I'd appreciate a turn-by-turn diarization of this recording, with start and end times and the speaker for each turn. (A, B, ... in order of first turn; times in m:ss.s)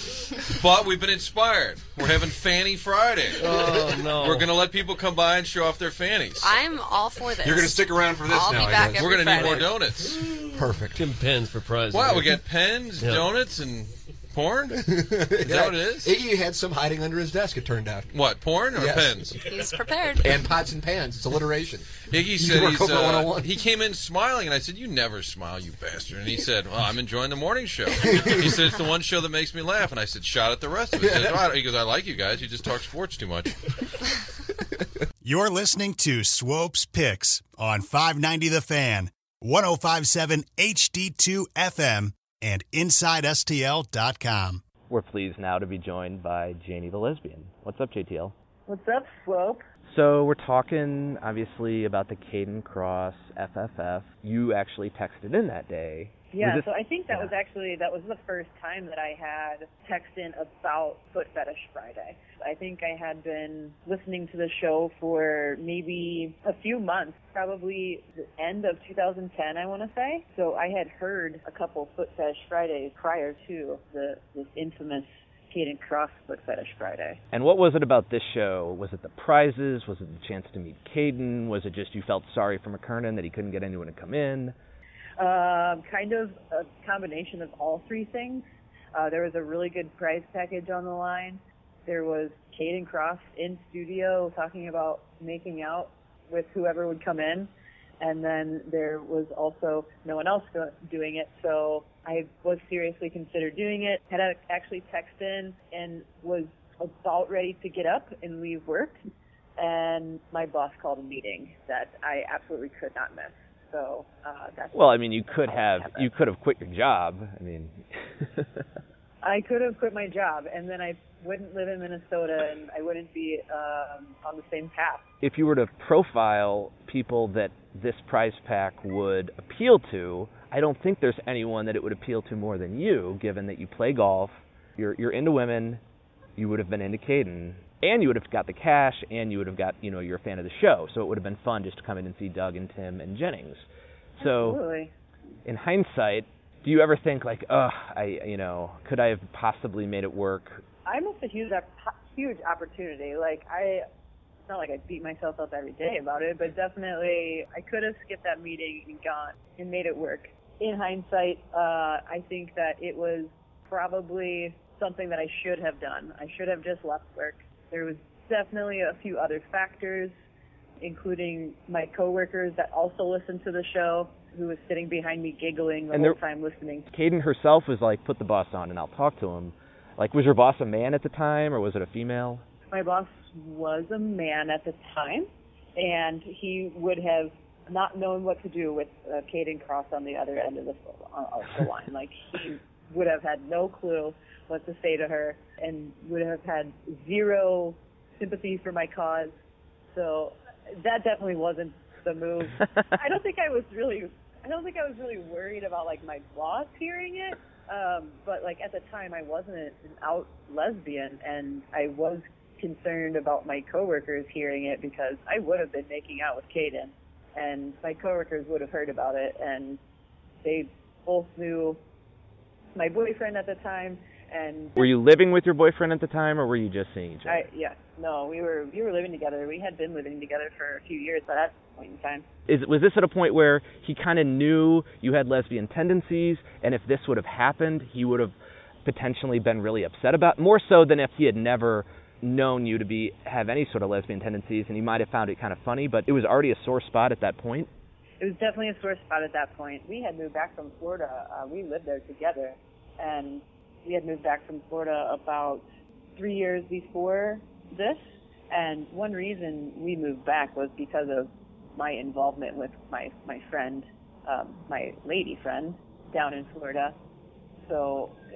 0:00.5-0:06.5 A
0:03.4-0:04.5 B
0:06.4-0:09.8 C
0:07.4-0:09.9 D
0:08.9-0:10.2 A
0:10.4-0:11.0 D
0:10.9-0:12.4 B
0:11.9-0:16.1 A
0:13.0-0:13.3 B
0:14.8-0:18.1 D
0:18.1-0:19.4 A
0:18.7-0:19.4 D
0:19.4-0:20.4 C
0:20.2-0:23.6 D
0:22.1-0:33.6 A
0:28.0-0:28.5 D
0:30.9-0:31.5 D
0:35.2-0:44.6 E
0:44.9-0:48.3 F
0:48.7-0:49.6 G
0:49.9-0:57.4 F
0:56.3-1:17.2 G
1:17.3-1:24.5 F
1:25.2-1:37.5 G
1:38.0-1:49.0 G
1:49.6-1:56.1 G
1:54.7-1:58.6 F
1:59.2-2:05.0 G
2:05.2-2:15.8 F
2:16.4-2:23.6 F
2:24.2-2:24.6 F
2:24.2-2:24.9 G
2:25.4-2:30.6 F
2:30.8-2:33.8 G
2:34.5-2:50.1 G
2:50.8-2:56.9 G
2:55.9-2:56.2 F
2:56.9-3:02.4 F
3:02.7-3:19.3 G
3:19.9-3:39.8 G
3:40.4-3:41.8 G
3:42.7-3:44.9 G
3:44.8-3:47.4 F
3:47.2-3:52.2 G
3:52.5-4:07.7 F
4:08.2-4:15.6 G
4:16.2-4:26.9 G
4:27.6-4:28.2 G